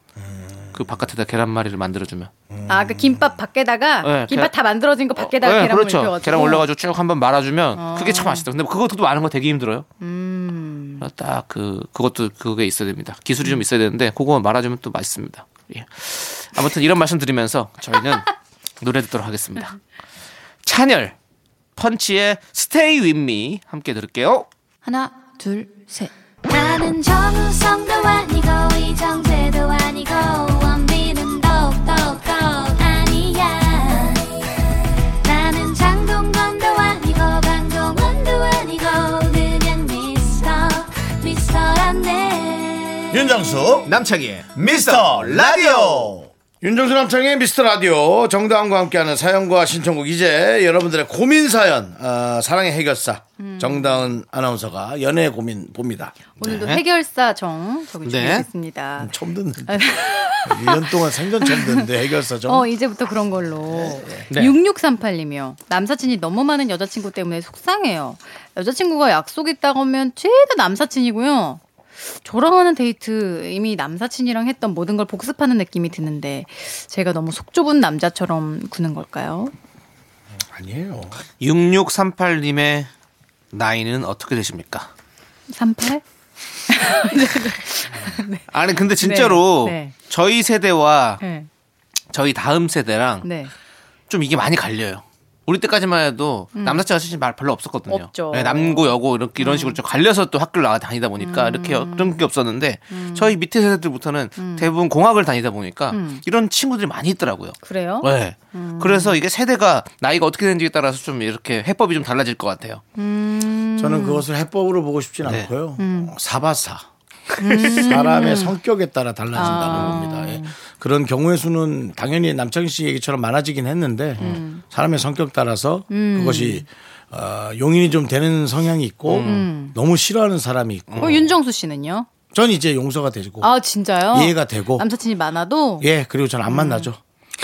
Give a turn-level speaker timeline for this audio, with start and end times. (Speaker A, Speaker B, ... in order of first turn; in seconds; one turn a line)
Speaker A: 0.2-0.9
Speaker B: 0.7-2.3
Speaker A: 2.5-3.3
Speaker C: 2.7-6.7
Speaker B: 4.0-4.5
Speaker B: 5.2-9.9
Speaker C: 7.8-8.5
Speaker C: 10.0-11.1
Speaker B: 11.0-19.8
Speaker B: 20.7-21.1
Speaker B: 21.8-24.5
Speaker D: 24.9-34.5
Speaker D: 35.2-43.1
Speaker A: 43.1-43.9
Speaker B: 43.9-46.2
Speaker A: 44.5-56.2
Speaker C: 53.4-54.1
Speaker C: 56.4-59.1
Speaker B: 56.4-56.8
Speaker B: 58.0-58.5
Speaker A: 59.0-62.7
Speaker C: 59.7-61.9
Speaker C: 62.5-79.5
Speaker A: 63.7-64.6
Speaker A: 80.3-81.2
Speaker B: 81.4-82.9
Speaker B: 83.5-84.9
Speaker C: 85.5-86.0
Speaker C: 86.7-89.9
Speaker B: 88.5-91.2
Speaker C: 91.2-91.5
Speaker B: 92.1-93.3
Speaker C: 93.2-93.5
Speaker B: 94.1-112.8
Speaker C: 96.5-96.9
Speaker C: 97.9-99.8
Speaker C: 101.2-102.2
Speaker C: 102.9-103.3
Speaker C: 104.4-104.7
Speaker C: 105.9-106.2
Speaker C: 107.6-109.2
Speaker C: 113.0-114.3
Speaker A: 113.8-116.9
Speaker B: 115.2-115.5
Speaker C: 115.8-116.1
Speaker C: 117.4-118.6
Speaker B: 117.4-118.0
Speaker A: 117.7-131.3
Speaker C: 119.3-120.5
Speaker B: 119.4-120.0
Speaker C: 124.2-124.6
Speaker C: 125.9-126.7
Speaker B: 129.1-129.5
Speaker C: 129.2-129.8
Speaker B: 130.9-131.3
Speaker C: 131.0-132.1
Speaker A: 132.3-133.5
Speaker C: 133.4-135.9
Speaker A: 134.1-134.9
Speaker A: 135.8-137.0
Speaker C: 136.5-136.9